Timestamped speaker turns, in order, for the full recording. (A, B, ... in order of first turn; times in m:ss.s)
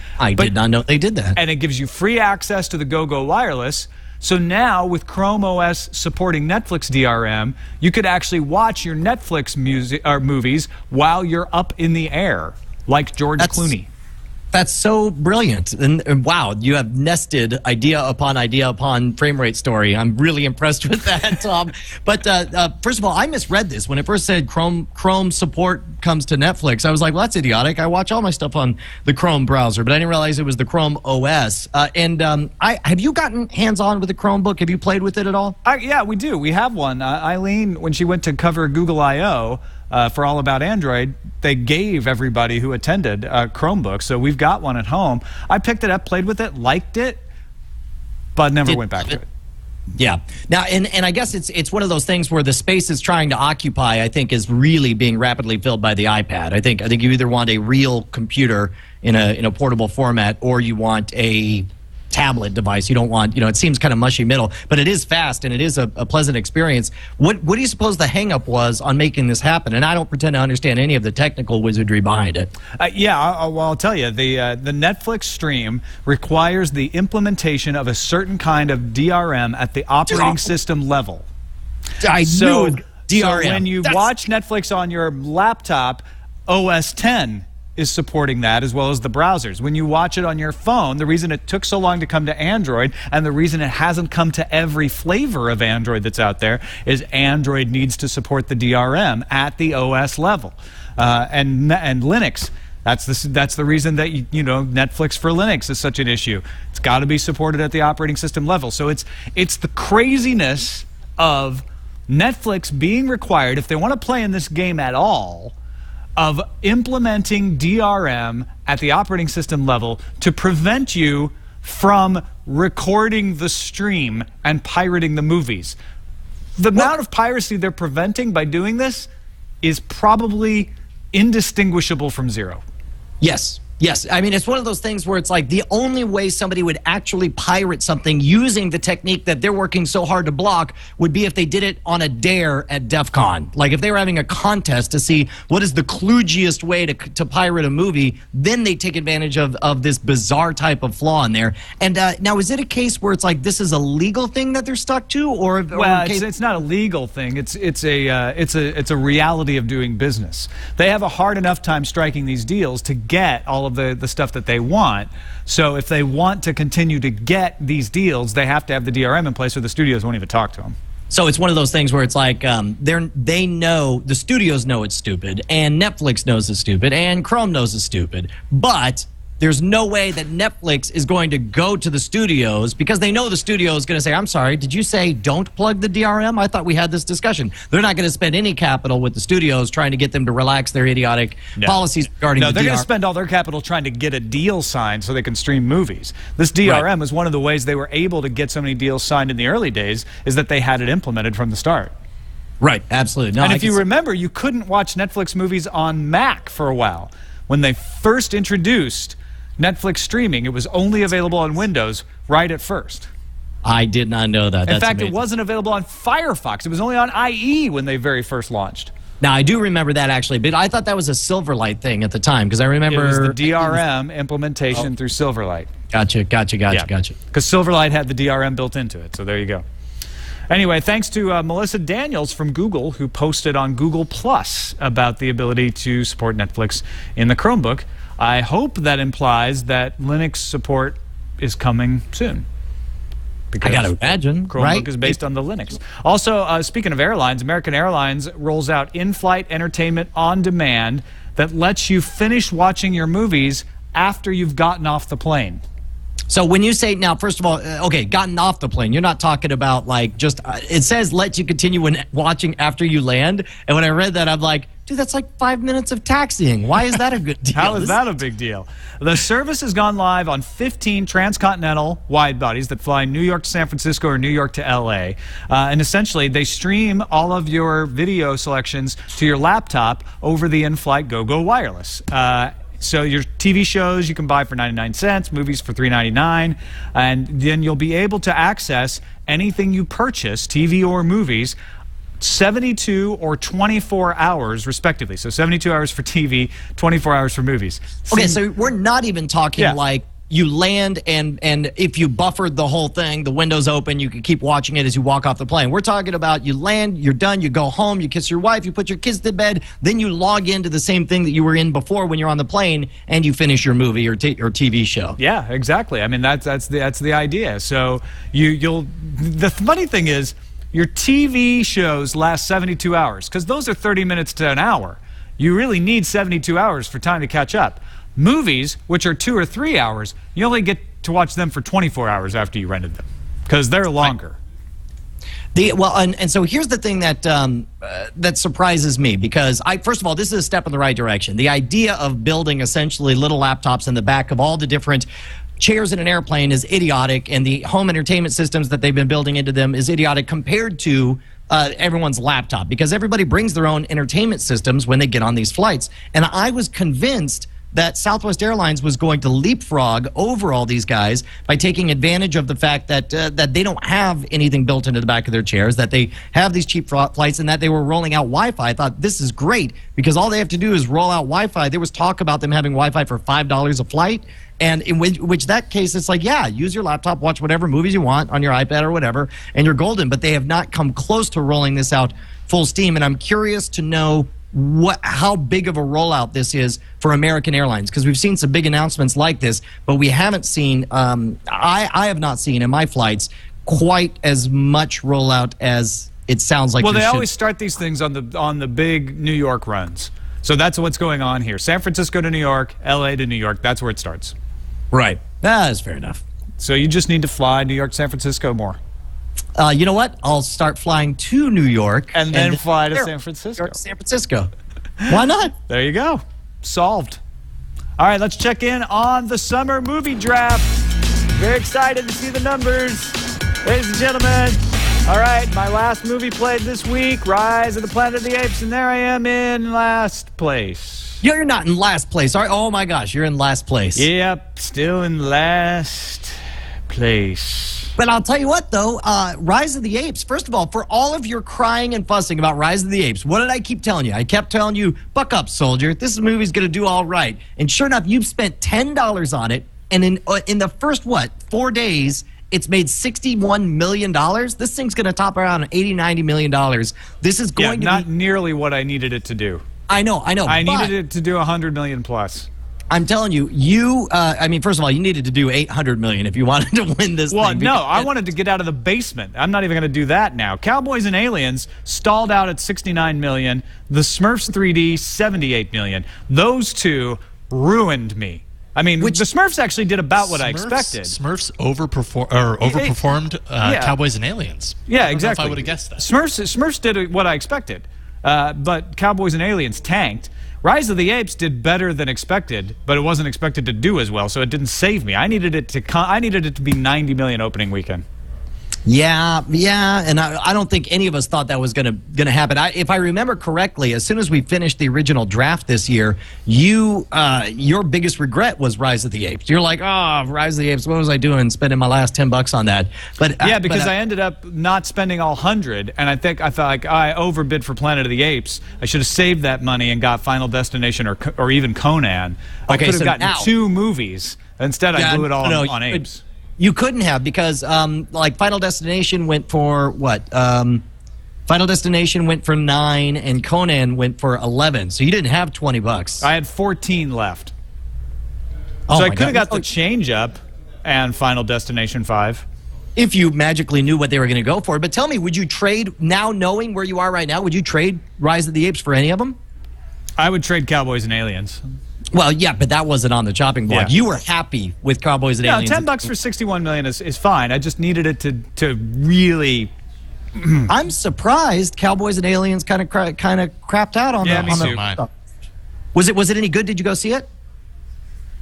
0:00.2-0:01.4 A
0:01.4-0:13.9 B
0:13.4-0:13.7 A
0:14.5-0:35.6 A
0:35.6-0:47.2 B
0:48.4-0:49.3 B
0:48.7-0:49.2 A
0:50.0-1:12.5 A
1:12.8-1:21.3 B
1:20.1-1:20.5 A
1:22.0-1:24.1 A
1:22.2-1:55.5 B
1:56.2-2:05.8 B
2:06.6-2:09.1 B
2:09.6-2:12.6 B
2:13.2-2:36.3 A
2:35.7-2:50.8 B
2:51.1-3:12.9 A
3:12.4-3:21.9 B
3:22.6-3:23.8 A
3:23.4-3:33.1 B
3:33.6-3:35.2 A
3:34.7-3:38.9 B
3:39.2-3:43.8 A
3:42.9-3:45.7 B
3:45.9-3:47.2 A
3:46.7-3:49.6 B
3:50.5-4:02.4 B
4:03.5-4:15.6 B
4:03.6-4:05.2 A
4:16.3-4:28.0 A
4:27.5-4:51.6 B
4:52.2-4:58.4 B
4:58.1-5:15.2 A
5:15.2-5:34.4 B
5:35.5-5:45.1 A
5:45.6-6:37.3 A
6:36.8-6:44.4 B
6:44.9-6:46.2 A
6:46.6-6:48.8 B
6:49.6-6:54.5 A
6:52.1-6:53.8 B
6:55.1-6:55.5 A
6:55.7-6:57.2 B
6:58.0-7:11.2 B
7:11.2-7:14.1 A
7:14.0-7:16.4 B
7:16.9-7:17.9 B
7:18.0-7:38.1 A
7:37.6-7:39.6 B
7:39.9-7:41.0 A
7:40.5-7:42.5 B
7:42.9-7:48.1 A
7:47.3-8:01.2 B
8:00.2-8:06.1 C
8:02.6-8:03.0 B
8:03.6-8:04.0 B
8:04.9-8:18.0 B
8:18.9-8:33.9 A
8:33.4-8:46.2 B
8:42.7-8:43.5 A
8:44.9-8:46.1 A
8:46.6-8:50.8 A
8:51.5-8:56.2 A
8:56.2-8:57.5 B
8:58.9-8:59.6 A
8:58.9-9:02.4 B
9:03.0-9:09.4 A
9:10.2-9:11.6 B
9:12.1-9:16.1 A
9:15.4-9:19.7 B
9:20.4-9:20.7 B
9:20.7-9:25.1 A
9:24.2-9:24.8 B
9:24.3-9:25.0 C
9:25.9-9:27.3 A